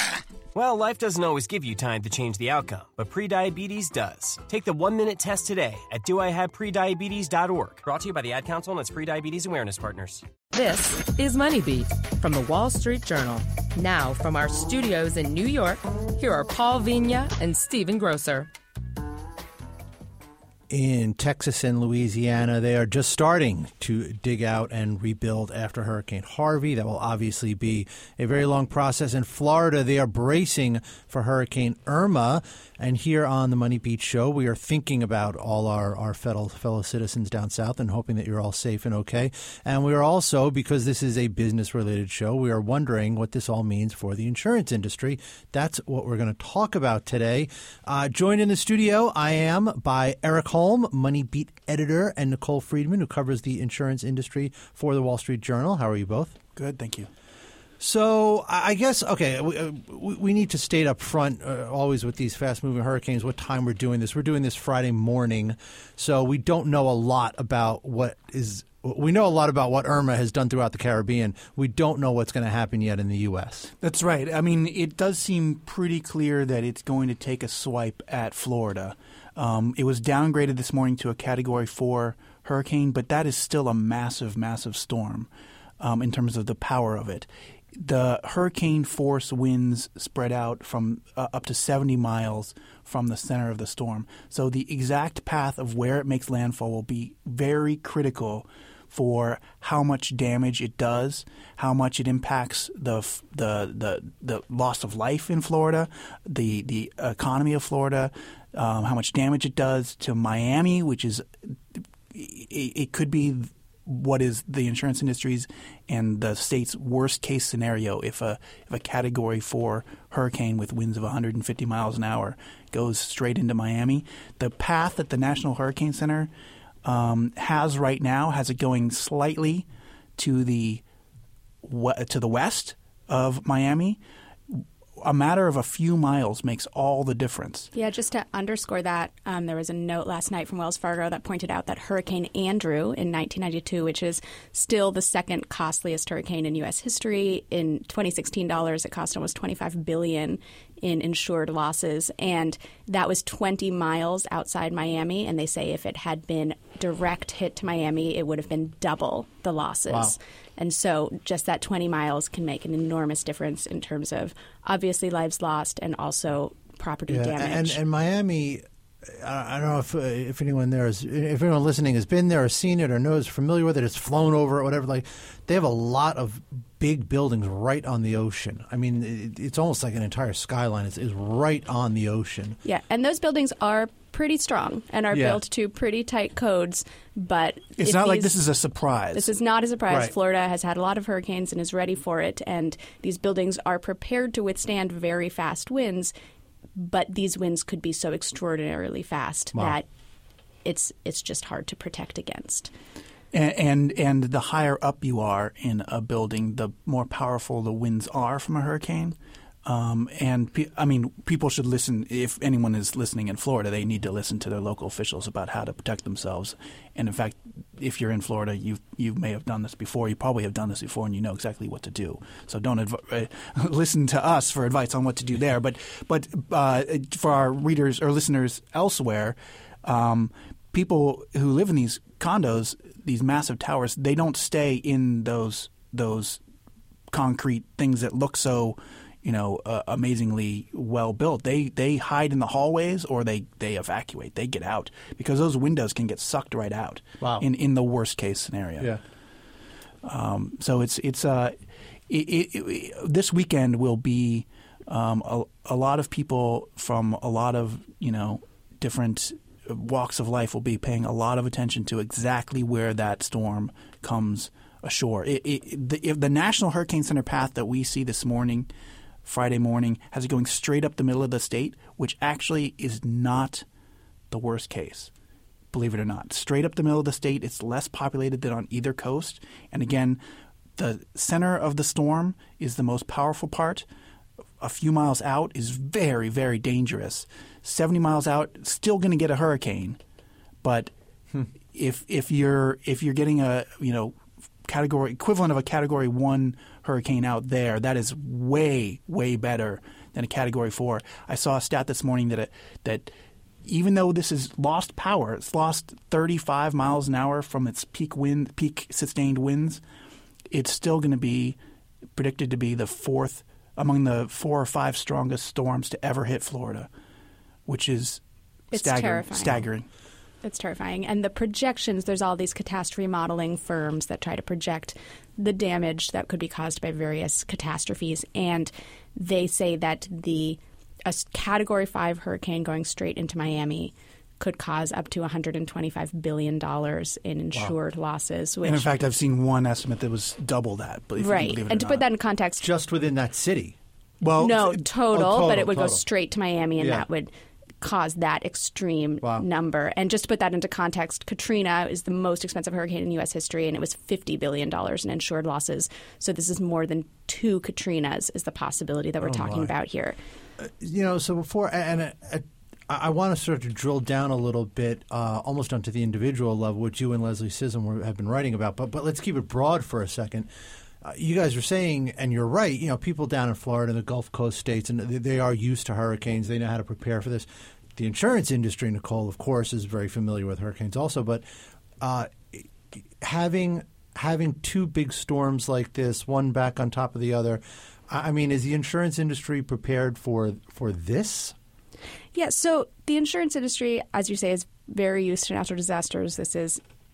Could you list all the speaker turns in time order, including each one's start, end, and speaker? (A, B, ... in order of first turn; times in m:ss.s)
0:00.5-0:10.3 A
0:10.5-0:18.5 B
0:20.7-0:56.4 C
0:56.6-0:57.1 D
0:57.8-1:13.7 C
1:13.8-1:25.3 D
1:25.8-2:06.3 D
2:06.8-2:09.6 D
2:10.2-2:10.8 D
2:11.6-2:17.7 D
2:17.7-2:47.8 E
2:39.9-2:40.2 C
2:47.1-3:02.6 C
3:02.6-3:08.4 E
3:05.1-3:05.4 C
3:07.8-3:09.3 D
3:09.2-3:16.1 E
3:16.8-3:19.9 E
3:19.5-3:19.8 C
3:20.6-3:22.7 E
3:23.3-3:56.4 D
3:57.1-4:08.9 D
4:07.2-4:07.5 C
4:10.0-4:28.7 D
4:29.2-4:33.6 D
4:34.3-4:35.1 D
4:35.7-4:40.2 D
4:40.8-4:43.9 D
4:44.6-4:50.0 D
4:50.6-4:50.9 D
4:51.7-5:03.1 D
5:03.6-5:09.8 D
5:10.5-5:11.6 D
5:12.2-5:16.9 D
5:17.7-5:18.2 D
5:18.7-5:19.6 E
5:18.7-5:19.9 D
5:20.4-5:38.9 E
5:38.6-5:42.0 D
5:41.2-5:42.7 E
5:42.6-5:43.8 C
5:44.2-5:44.8 D
5:44.4-5:47.3 E
5:45.1-5:46.0 C
5:46.8-5:47.1 C
5:47.8-6:00.2 E
5:59.2-5:59.7 C
6:00.6-6:10.5 C
6:11.0-6:21.4 C
6:22.0-6:31.6 C
6:32.3-6:36.8 E